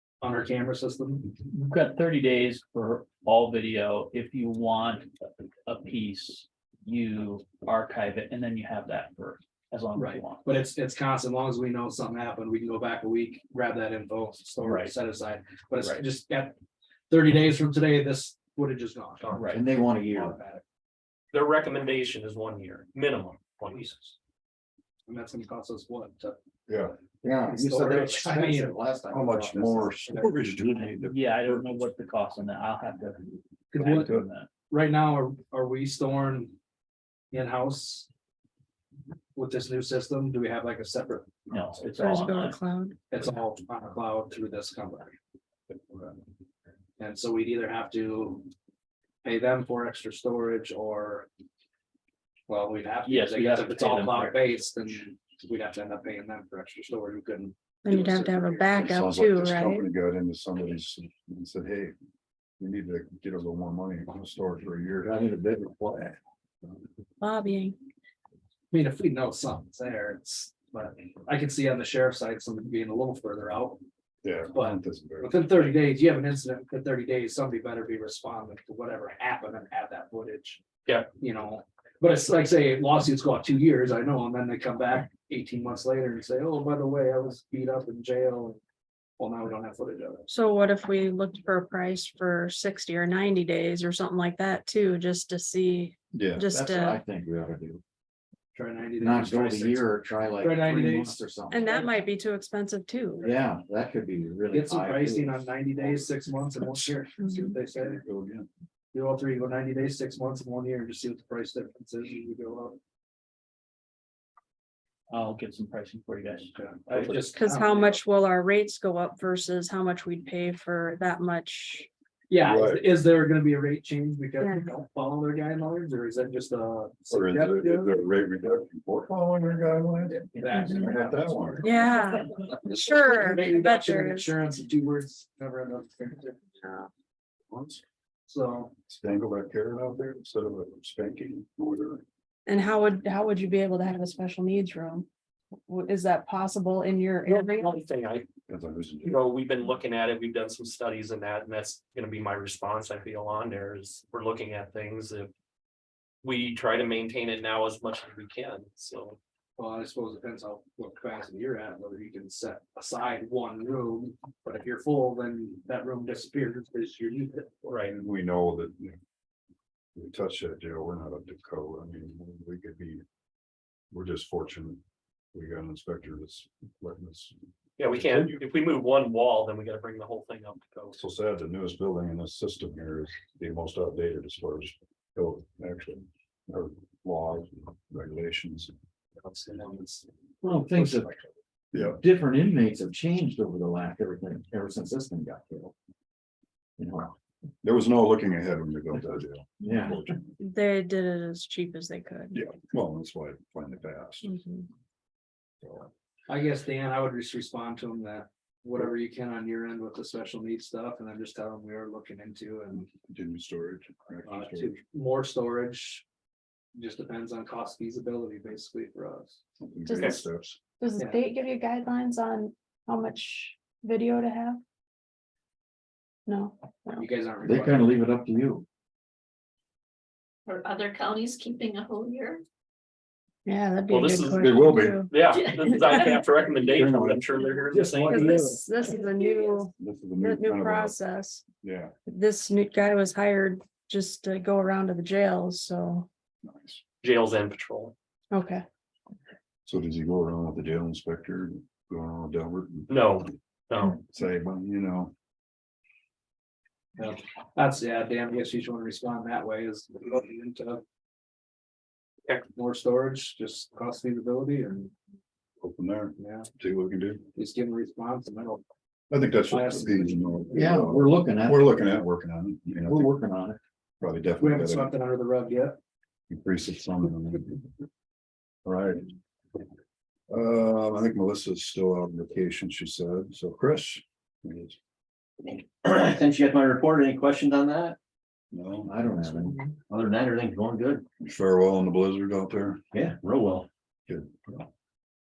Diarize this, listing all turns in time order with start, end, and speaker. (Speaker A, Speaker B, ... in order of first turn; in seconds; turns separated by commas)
Speaker A: 0.2-1.3, Speaker B: 1.5-10.6, Speaker A: 9.9-16.5, Speaker B: 14.6-14.9, Speaker B: 15.8-16.0, Speaker A: 17.1-20.6, Speaker C: 19.2-19.6, Speaker B: 19.3-19.6, Speaker D: 19.5-20.4, Speaker C: 21.3-24.1, Speaker A: 25.1-26.4, Speaker E: 26.7-26.9, Speaker D: 27.2-29.9, Speaker A: 27.4-28.8, Speaker E: 29.1-31.2, Speaker B: 30.8-34.5, Speaker A: 33.7-34.1, Speaker A: 34.7-36.5, Speaker A: 37.3-38.1, Speaker A: 39.3-41.8, Speaker B: 41.5-42.6, Speaker F: 42.0-43.0, Speaker A: 43.1-45.2, Speaker E: 45.7-46.2, Speaker A: 47.0-48.5, Speaker A: 49.2-51.3, Speaker A: 52.5-58.9, Speaker B: 53.0-54.6, Speaker F: 57.8-59.9, Speaker E: 58.8-61.9, Speaker E: 62.6-65.1, Speaker D: 65.0-66.2, Speaker F: 67.2-67.8, Speaker A: 68.7-73.8, Speaker E: 74.2-75.4, Speaker A: 74.5-80.6, Speaker A: 81.2-88.6, Speaker A: 89.2-90.3, Speaker F: 90.3-97.0, Speaker E: 96.1-96.5, Speaker D: 96.5-97.8, Speaker A: 98.5-101.9, Speaker D: 99.0-101.7, Speaker F: 101.5-103.3, Speaker A: 103.2-103.4, Speaker D: 103.2-105.4, Speaker A: 104.5-108.0, Speaker F: 107.2-107.5, Speaker E: 107.8-108.5, Speaker A: 108.9-112.8, Speaker B: 115.1-116.5, Speaker A: 116.5-118.0, Speaker E: 116.9-117.2, Speaker F: 117.3-121.9, Speaker A: 122.3-127.9, Speaker E: 122.4-122.8, Speaker F: 124.4-124.7, Speaker E: 127.1-131.7, Speaker A: 130.1-136.4, Speaker F: 131.6-134.3, Speaker F: 136.6-136.9, Speaker E: 137.5-137.8, Speaker A: 138.3-138.7, Speaker E: 138.9-142.0, Speaker F: 142.4-145.1, Speaker F: 145.7-147.8, Speaker C: 147.2-148.3, Speaker E: 148.5-149.2, Speaker C: 149.0-155.3, Speaker C: 156.2-159.2, Speaker A: 159.6-167.7, Speaker C: 167.6-167.9, Speaker E: 167.9-168.9, Speaker E: 169.9-173.0, Speaker E: 173.9-174.8, Speaker E: 175.3-177.3, Speaker C: 177.8-181.0, Speaker E: 177.8-178.4, Speaker E: 180.9-188.7, Speaker A: 189.2-191.2, Speaker D: 190.4-191.1, Speaker E: 191.7-192.0, Speaker D: 191.7-195.7, Speaker D: 196.8-197.1, Speaker E: 197.6-200.3, Speaker D: 199.6-199.9, Speaker F: 200.4-202.4, Speaker E: 202.3-204.3, Speaker F: 204.2-204.7, Speaker E: 205.6-205.9, Speaker A: 206.3-212.9, Speaker E: 213.1-214.7, Speaker A: 214.3-216.0, Speaker A: 216.7-219.4, Speaker E: 219.6-220.6, Speaker F: 219.8-220.2, Speaker F: 220.8-224.6, Speaker F: 226.2-227.0, Speaker A: 227.0-228.0, Speaker D: 227.4-228.6, Speaker G: 230.4-232.4, Speaker F: 233.4-235.1, Speaker C: 233.9-234.5, Speaker E: 234.4-235.1, Speaker C: 235.1-238.4, Speaker G: 235.3-235.9, Speaker F: 235.7-235.9, Speaker E: 236.7-237.3, Speaker A: 237.7-238.6, Speaker F: 238.1-241.4, Speaker G: 239.2-239.6, Speaker E: 239.8-241.0, Speaker E: 241.6-241.9, Speaker F: 242.1-246.1, Speaker E: 246.4-246.8, Speaker C: 247.0-247.9, Speaker F: 248.3-248.6, Speaker E: 249.7-253.0, Speaker C: 252.9-254.0, Speaker E: 254.1-255.1, Speaker A: 257.0-260.8, Speaker A: 262.5-264.9, Speaker E: 265.6-267.2, Speaker A: 266.2-266.5, Speaker A: 267.3-268.6, Speaker E: 269.1-273.1, Speaker A: 269.5-270.8, Speaker D: 270.5-271.9, Speaker D: 272.9-273.6, Speaker E: 274.0-274.9, Speaker A: 274.4-275.8, Speaker E: 276.3-277.6, Speaker E: 278.6-279.1, Speaker E: 280.3-284.8, Speaker H: 285.8-288.0, Speaker E: 288.5-289.0, Speaker D: 288.9-289.6, Speaker H: 289.9-291.0, Speaker E: 291.2-292.8, Speaker H: 292.9-293.7, Speaker E: 294.1-294.7